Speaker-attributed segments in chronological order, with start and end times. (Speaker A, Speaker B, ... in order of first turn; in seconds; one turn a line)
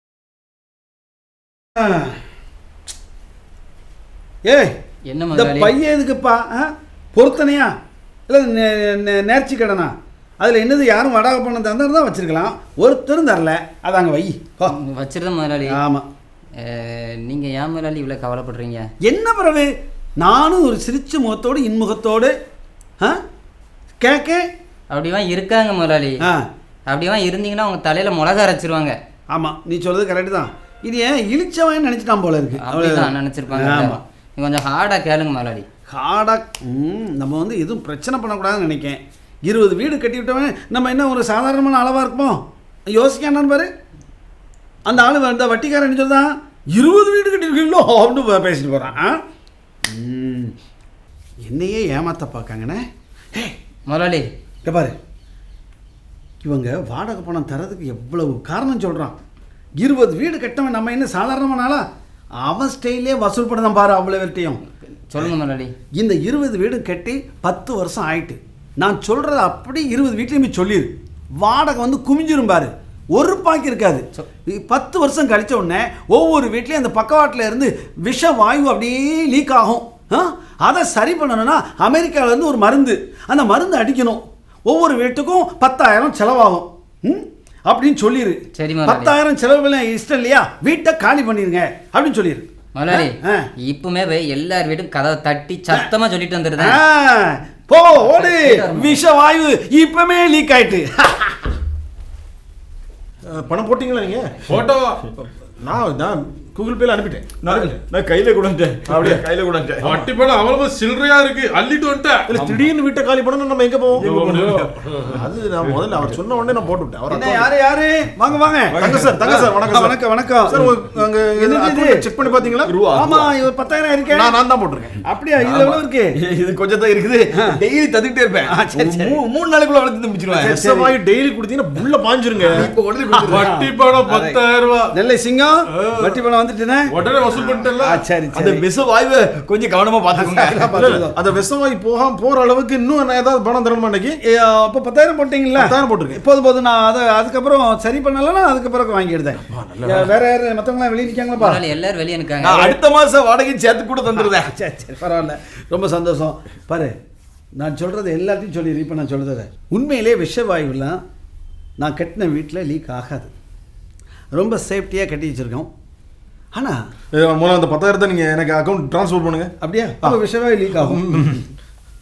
Speaker A: 1.7-2.2
Speaker A: 4.4-4.8
Speaker B: 5.1-5.7
Speaker A: 5.3-7.7
Speaker A: 8.3-14.8
Speaker B: 14.7-15.8
Speaker A: 15.7-16.1
Speaker B: 16.6-18.9
Speaker A: 19.0-22.3
Speaker A: 24.0-24.5
Speaker B: 24.9-26.2
Speaker B: 26.9-28.9
Speaker A: 29.3-34.0
Speaker B: 32.6-35.6
Speaker A: 35.9-43.7
Speaker A: 44.9-49.2
Speaker A: 49.9-50.5
Speaker A: 51.5-53.5
Speaker B: 53.9-54.3
Speaker A: 54.6-55.0
Speaker A: 56.4-59.2
Speaker A: 59.8-61.9
Speaker A: 62.4-64.6
Speaker B: 65.1-65.7
Speaker A: 66.0-93.5
Speaker B: 88.5-89.1
Speaker B: 92.8-96.8
Speaker A: 96.6-101.5
Speaker B: 98.0-99.0
Speaker C: 103.2-104.4
Speaker D: 104.5-105.1
Speaker C: 105.6-107.5
Speaker E: 107.4-110.1
Speaker D: 108.9-109.2
Speaker D: 109.8-112.3
Speaker C: 112.3-114.4
Speaker E: 112.3-112.7
Speaker D: 114.0-116.1
Speaker E: 114.0-114.7
Speaker C: 115.1-117.5
Speaker A: 117.1-120.7
Speaker E: 118.7-119.5
Speaker C: 118.8-122.7
Speaker A: 121.4-122.0
Speaker E: 122.7-123.3
Speaker A: 122.9-124.3
Speaker C: 124.1-125.0
Speaker A: 125.0-126.1
Speaker E: 125.4-130.5
Speaker A: 128.5-129.2
Speaker C: 130.4-132.7
Speaker A: 130.4-130.9
Speaker E: 132.5-133.4
Speaker A: 133.1-134.3
Speaker D: 133.2-134.9
Speaker A: 134.9-138.6
Speaker D: 135.7-136.2
Speaker D: 136.9-138.0
Speaker E: 138.3-140.8
Speaker A: 140.1-141.2
Speaker C: 140.7-144.2
Speaker A: 144.3-151.6
Speaker C: 145.6-146.2
Speaker C: 149.3-150.1
Speaker B: 151.4-152.7
Speaker E: 152.4-154.5
Speaker A: 154.2-156.9
Speaker A: 157.6-161.0
Speaker A: 161.8-163.3
Speaker A: 164.3-165.7
Speaker A: 166.5-166.8
Speaker C: 167.1-170.2
Speaker A: 169.6-171.4
Speaker C: 170.7-171.4